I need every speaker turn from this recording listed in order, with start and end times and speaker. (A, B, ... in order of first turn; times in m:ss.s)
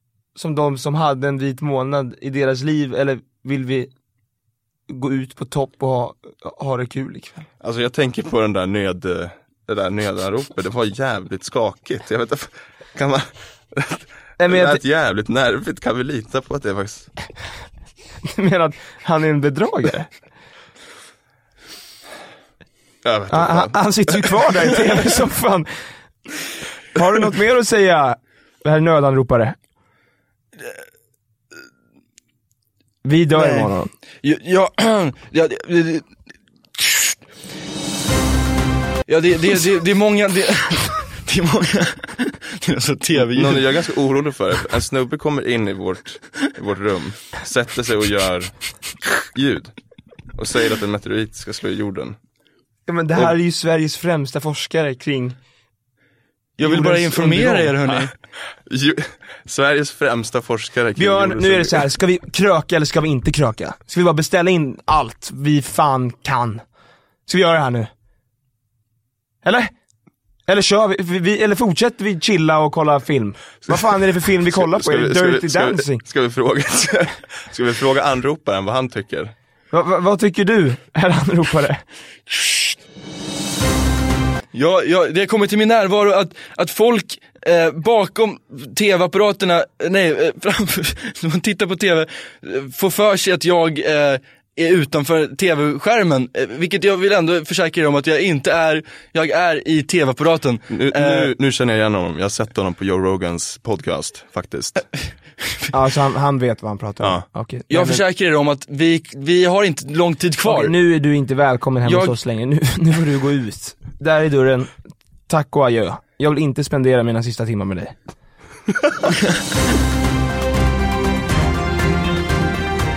0:00.3-0:03.9 A
0:04.9-0:07.4 A
0:07.6-0:17.1 B
0:14.4-0:14.8 A
0:18.2-0:20.1 A
0:23.0-0:24.7 B
0:23.3-0:25.9 A
0:26.9-0:29.6 A
0:33.0-0:33.9 A
0:33.3-0:36.1 C
0:36.8-0:37.2 C
0:39.1-0:43.8 C
0:43.2-0:48.5 B
0:49.2-0:49.7 B
0:50.3-0:52.2 B
0:52.9-0:55.4 A
0:56.6-0:58.1 C
0:56.6-0:57.7 A
0:58.7-1:01.8 B
1:01.0-1:06.6 A
1:07.2-1:07.9 A
1:09.4-1:09.7 A
1:10.5-1:16.0 A
1:14.4-1:19.3 B
1:19.7-1:21.8 A
1:24.5-1:41.3 C
1:40.7-1:44.8 B
1:45.7-1:48.0 A
1:47.7-1:50.8 C
1:50.4-1:54.8 A
1:51.8-1:52.2 C
1:55.3-1:57.9 A